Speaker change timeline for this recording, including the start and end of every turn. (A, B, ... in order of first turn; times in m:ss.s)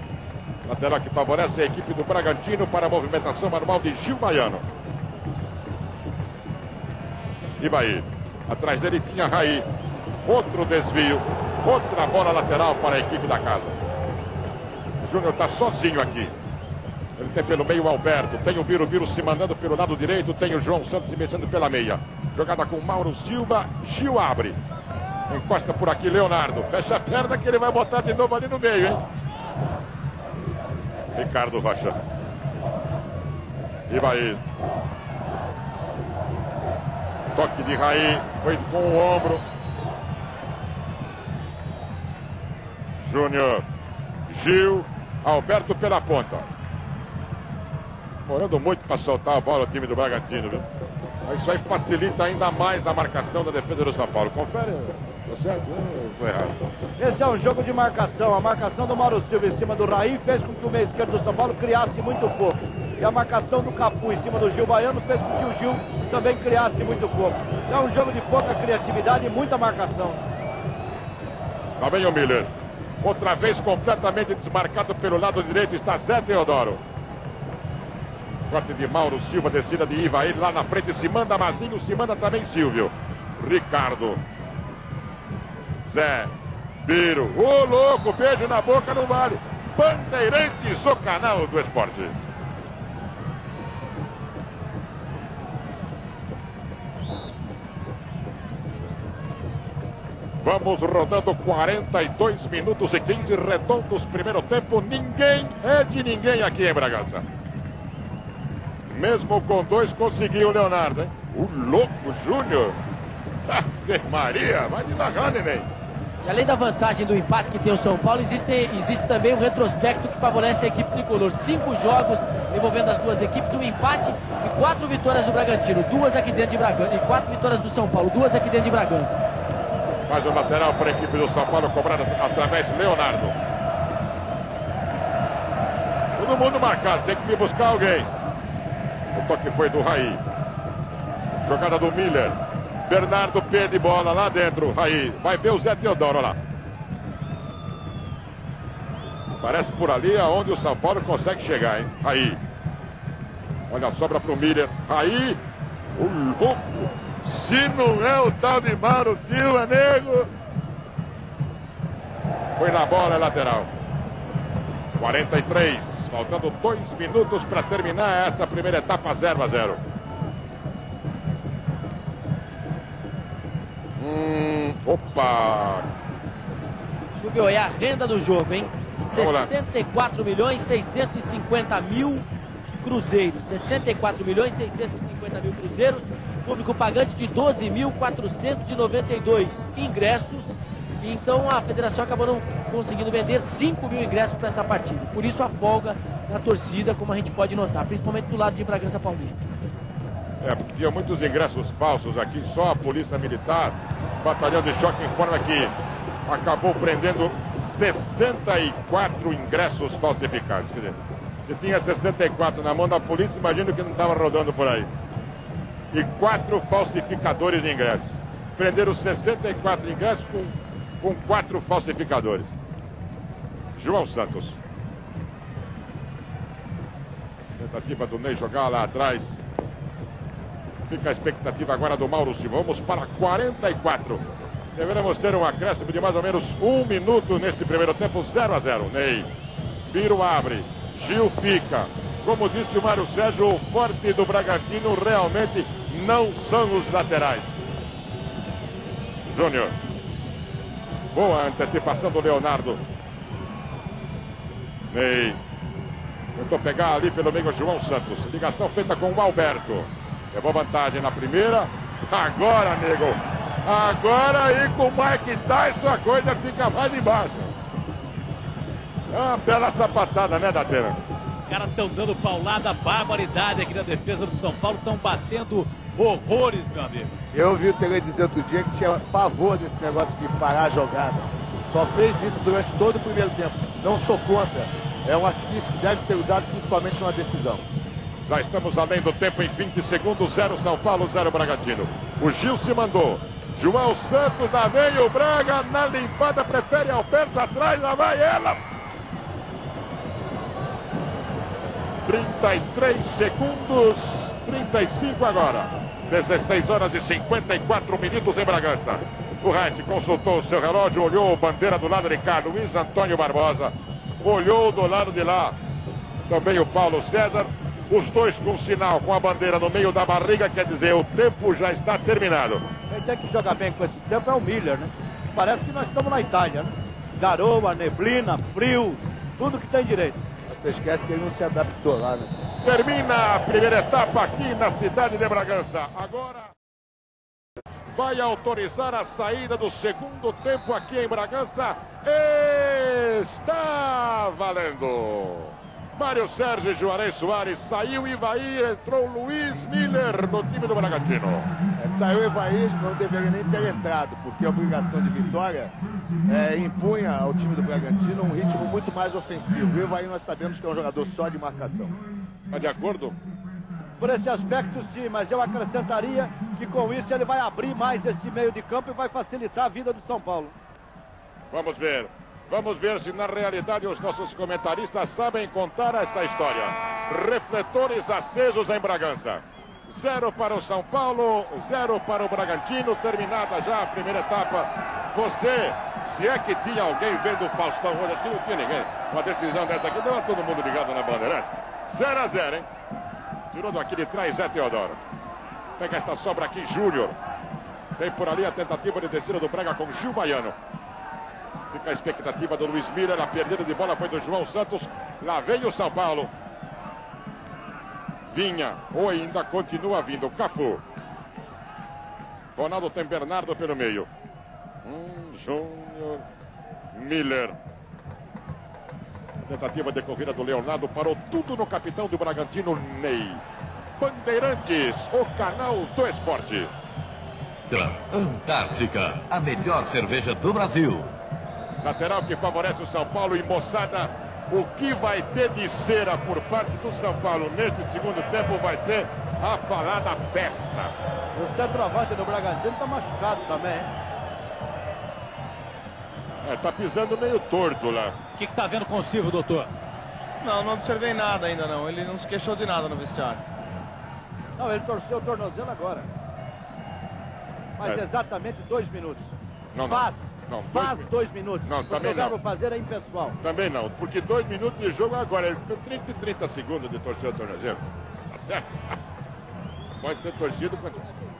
0:00.6-0:04.6 A
0:07.6-0:09.6 A
0:10.2-0:13.7 A
0:15.0-0:16.3 A
0:17.2-0:24.6 A
0:25.3-0:29.0 A
0:31.2-0:32.0 A
0:33.9-0:34.4 A
0:37.3-0:39.4 A
0:43.0-0:43.6 A
0:44.3-0:46.4 A
0:48.3-0:50.6 A
0:51.3-0:56.5 A
0:57.0-1:10.2 B
1:11.8-1:12.5 A
1:13.0-1:16.8 A
1:18.5-1:24.2 A
1:25.8-1:26.3 A
1:26.8-1:32.1 A
1:40.4-1:47.2 A
1:48.9-1:52.8 A
1:53.5-1:55.7 A
1:56.2-2:09.2 C
2:10.1-2:13.3 A
2:16.2-2:18.1 A
2:19.1-2:20.2 A
2:21.4-2:22.4 A
2:22.9-2:26.4 A
2:29.4-2:32.4 A
2:33.7-2:35.4 A
2:36.0-2:40.3 A
2:42.6-2:43.7 A
2:45.0-2:49.8 A
2:54.0-2:55.8 A
2:57.1-3:02.2 C
2:59.1-2:59.5 A
3:02.8-3:19.4 C
3:20.4-3:25.7 A
3:26.2-3:34.9 A
3:35.9-3:42.5 A
3:43.8-3:44.6 A
3:47.6-3:49.4 A
3:50.9-3:54.2 A
3:54.8-3:59.3 A
3:59.9-4:07.6 A
4:09.3-4:09.7 A
4:11.1-4:12.8 A
4:14.9-4:15.4 A
4:16.4-4:27.5 A
4:29.1-4:31.0 A
4:31.3-4:37.1 D
4:37.3-4:47.6 E
4:48.2-4:58.6 A
5:02.0-5:15.5 A
5:16.3-5:22.6 A
5:22.9-5:30.2 B
5:30.5-5:32.3 E
5:32.6-5:36.5 A
5:37.9-5:51.5 A
5:51.8-5:55.7 E
5:56.2-6:02.0 E
6:02.5-6:03.1 A
6:04.0-6:10.5 B
6:11.5-6:32.7 A
6:33.5-6:35.0 A
6:35.8-6:37.1 A
6:38.0-6:40.5 A
6:41.7-6:46.3 A
6:48.3-6:50.8 A
6:52.6-6:54.1 A
6:54.8-6:56.2 A
6:56.9-6:57.5 A
6:59.4-7:03.4 A
7:04.0-7:06.7 A
7:07.7-7:11.1 F
7:11.8-7:20.9 A
7:21.3-7:23.9 B
7:26.4-7:28.1 A
7:28.4-7:29.7 D
7:30.4-7:33.4 G
7:34.6-7:36.1 B
7:37.8-7:43.4 B
7:39.7-7:41.1 A
7:41.6-7:42.3 A
7:43.4-7:47.8 A
7:48.3-7:48.8 A
7:50.0-7:51.0 A